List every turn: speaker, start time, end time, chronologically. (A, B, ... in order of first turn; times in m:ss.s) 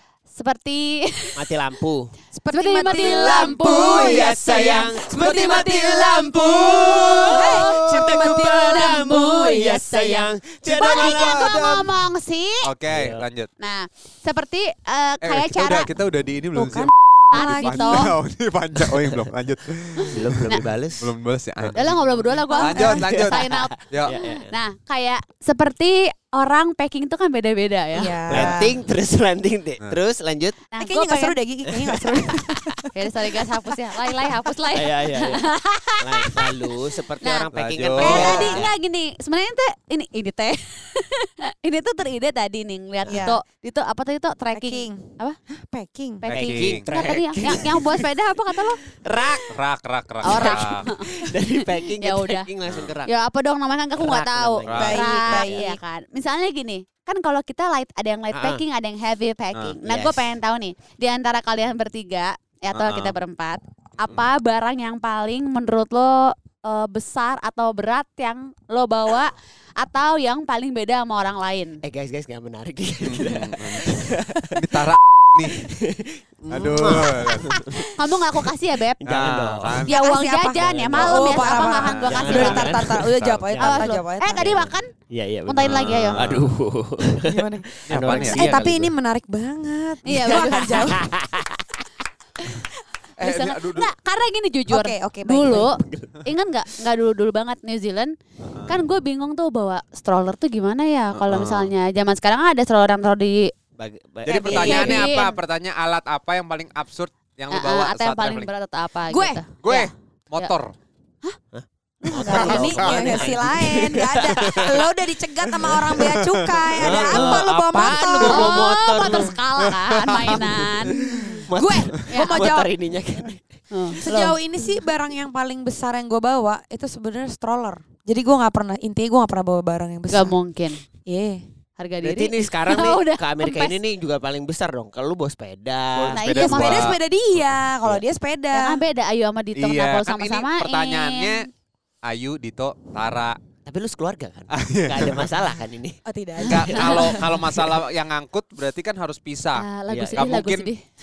0:00.3-0:01.4 A
0:01.4-0:02.1 B
0:02.3-0:04.3 C
0:02.5-0:12.7 A
0:03.5-0:05.7 D
0:03.7-0:11.9 B
0:07.3-0:08.1 D
0:07.3-0:08.9 C
0:10.7-0:11.8 D
0:12.6-0:13.5 D
0:12.9-0:13.2 B
0:13.6-0:15.9 A
0:15.2-0:21.8 D
0:16.5-0:18.1 C
0:17.3-0:18.1 A
0:20.0-0:20.6 A
0:20.1-0:21.1 B
0:21.7-0:22.3 B
0:21.8-0:28.6 A
0:22.5-0:23.1 C
0:22.6-0:24.1 D
0:23.0-0:24.5 B
0:27.9-0:28.8 C
0:28.3-0:30.6 B
0:30.7-0:31.4 A
0:30.8-0:33.0 C
0:31.8-0:32.3 B
0:33.0-0:36.5 A
0:34.7-0:35.5 B
0:36.0-0:38.8 B
0:37.2-0:37.5 A
0:37.5-0:38.6 D
0:38.0-0:45.4 A
0:38.0-0:38.6 C
0:43.1-0:43.4 C
0:44.5-0:46.3 C
0:46.2-0:48.8 A
0:46.3-0:46.9 D
0:46.3-0:48.1 B
0:49.0-0:49.5 B
0:49.5-0:50.9 D
0:50.2-0:51.1 A
0:50.4-0:53.1 B
0:51.6-0:52.5 A
0:52.7-0:52.9 D
0:53.1-1:11.8 A
0:54.0-0:55.7 B
0:54.6-0:55.1 D
0:54.8-0:55.7 C
0:58.3-0:58.6 B
0:59.6-1:00.4 B
1:02.7-1:03.2 D
1:11.8-1:14.6 B
1:13.0-1:15.7 D
1:15.6-1:17.8 B
1:16.5-1:17.6 D
1:16.8-1:17.8 C
1:18.0-1:19.0 A
1:19.0-1:19.8 B
1:19.0-1:19.9 D
1:19.8-1:24.5 C
1:19.9-1:22.7 A
1:20.6-1:21.1 B
1:20.9-1:22.7 D
1:22.1-1:28.9 B
1:23.6-1:24.9 A
1:25.5-1:26.2 A
1:25.6-1:26.5 D
1:27.2-1:31.1 C
1:27.9-1:28.6 D
1:30.0-1:30.9 A
1:30.8-1:31.6 B
1:33.2-1:33.9 D
1:33.2-1:38.1 A
1:34.7-1:35.7 C
1:35.9-1:36.1 B
1:38.5-1:38.8 D
1:38.7-1:43.5 A
1:41.2-1:41.7 D
1:43.8-1:45.2 B
1:44.2-1:48.5 D
1:44.3-1:45.4 A
1:47.5-1:50.5 A
1:49.1-1:49.4 C
1:49.6-1:50.7 D
1:51.5-1:54.9 B
1:52.0-1:53.3 A
1:52.3-1:58.7 C
1:54.4-1:54.7 D
1:55.6-1:57.4 D
1:56.8-1:59.3 B
1:57.8-2:01.1 A
1:58.1-1:58.5 D
1:59.6-2:01.4 D
2:01.1-2:02.7 C
2:01.5-2:04.0 B
2:02.1-2:02.4 A
2:03.7-2:04.4 A
2:04.0-2:10.4 C
2:10.1-2:10.8 A
2:11.1-2:11.4 C
2:11.8-2:13.8 A
2:12.0-2:16.2 B
2:15.9-2:17.0 D
2:16.1-2:16.9 A
2:16.3-2:18.8 C
2:18.5-2:21.5 A
2:19.6-2:21.5 D
2:22.0-2:23.4 D
2:23.6-2:26.0 B
2:24.5-2:25.3 D
2:26.1-2:27.4 C
2:26.4-2:27.1 A
2:26.5-2:29.6 D
2:26.5-2:27.1 B
2:29.6-2:30.8 A
2:29.9-2:30.3 B
2:30.2-2:30.7 D